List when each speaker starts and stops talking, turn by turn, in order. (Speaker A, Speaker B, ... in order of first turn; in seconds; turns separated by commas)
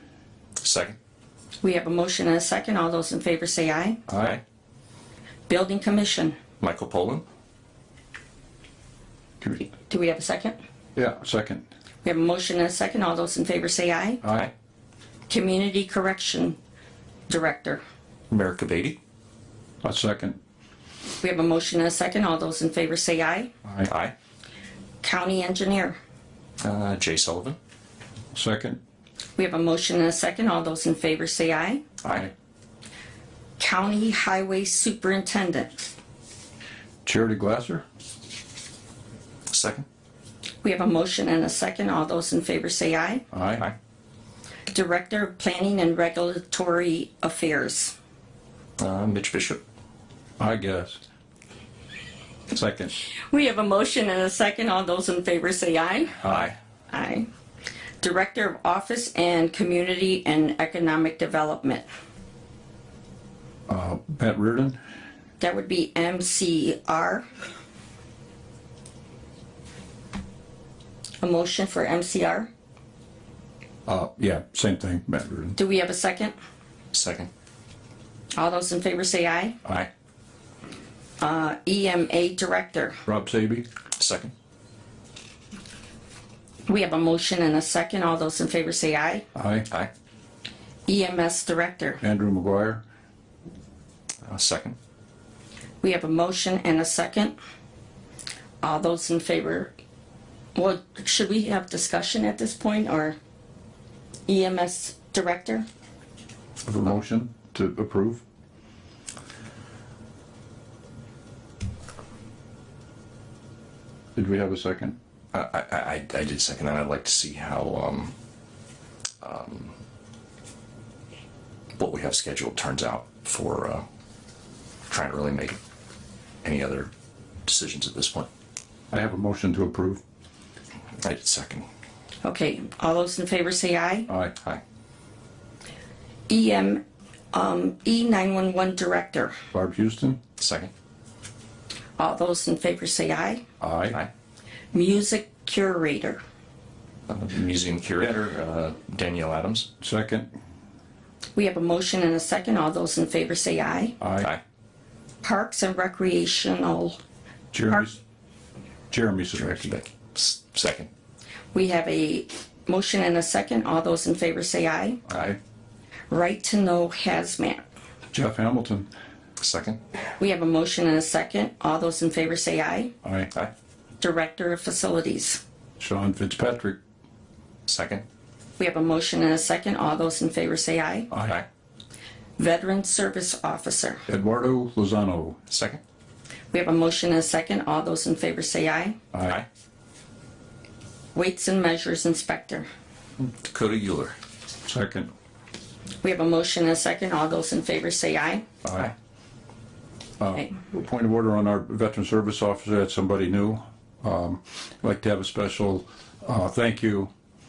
Speaker A: 0.6-0.9, Speaker B: 1.6-4.0, Speaker C: 4.1-4.4, Speaker A: 4.2-4.4, Speaker B: 5.5-6.3, Speaker A: 6.6-7.2, Speaker B: 9.9-10.6, Speaker C: 10.9-11.6, Speaker B: 12.0-14.2, Speaker B: 15.3-16.6, Speaker B: 17.3-17.8, Speaker A: 18.3-19.0, Speaker C: 19.8-20.4, Speaker B: 21.2-23.5, Speaker C: 23.6-23.9, Speaker A: 23.8-24.1, Speaker B: 25.0-26.0, Speaker A: 26.6-27.6, Speaker C: 28.3-28.8, Speaker B: 29.4-31.8, Speaker B: 33.6-35.9, Speaker C: 37.0-37.8, Speaker A: 39.5-39.8, Speaker B: 40.6-43.2, Speaker C: 43.3-43.7, Speaker B: 44.7-47.9, Speaker A: 48.8-49.6, Speaker C: 50.4-51.0, Speaker C: 52.5-52.9, Speaker B: 53.3-56.2, Speaker A: 56.2-56.5, Speaker C: 56.2-56.5, Speaker B: 56.9-57.3, Speaker B: 58.0-61.9, Speaker C: 63.7-64.8, Speaker B: 65.4-67.2, Speaker B: 71.2-72.5, Speaker C: 73.9-75.6, Speaker B: 75.5-76.3, Speaker A: 76.9-77.3, Speaker B: 78.3-79.6, Speaker B: 81.2-83.0, Speaker C: 83.0-83.6, Speaker A: 84.0-84.3, Speaker B: 86.7-89.2, Speaker C: 89.3-89.7, Speaker B: 90.9-92.0, Speaker C: 92.0-92.8, Speaker A: 94.2-94.8, Speaker B: 95.8-97.3, Speaker B: 98.6-99.7, Speaker B: 100.5-103.2, Speaker B: 104.3-105.7, Speaker C: 106.6-108.2, Speaker C: 114.2-115.0, Speaker A: 115.3-118.1, Speaker A: 119.2-119.7, Speaker A: 121.8-123.8, Speaker A: 124.9-125.6, Speaker A: 126.4-126.9, Speaker A: 127.5-128.3, Speaker C: 128.9-130.0, Speaker A: 131.0-131.7, Speaker B: 132.2-134.1, Speaker C: 134.1-134.3, Speaker B: 136.3-139.4, Speaker C: 139.5-140.2, Speaker A: 140.4-140.7, Speaker B: 142.0-143.4, Speaker C: 143.6-144.0, Speaker B: 144.7-146.2, Speaker A: 147.1-149.7, Speaker C: 149.8-150.3, Speaker B: 151.3-154.0, Speaker C: 154.0-154.3, Speaker B: 155.2-156.9, Speaker C: 157.5-158.0, Speaker C: 158.9-159.8, Speaker A: 159.3-160.9, Speaker B: 161.5-165.0, Speaker C: 165.1-165.4, Speaker B: 166.1-167.6, Speaker C: 168.1-168.9, Speaker A: 169.4-169.8, Speaker B: 170.2-172.9, Speaker C: 173.0-173.3, Speaker B: 174.0-175.4, Speaker C: 175.8-176.8, Speaker A: 177.7-178.0, Speaker B: 178.6-181.1, Speaker C: 181.1-181.4, Speaker B: 182.4-184.0, Speaker C: 184.1-185.4, Speaker A: 185.5-185.8, Speaker B: 186.5-189.0, Speaker B: 191.1-192.7, Speaker A: 193.4-194.2, Speaker C: 194.7-195.1, Speaker B: 196.0-198.4, Speaker C: 198.6-198.9, Speaker C: 200.2-207.1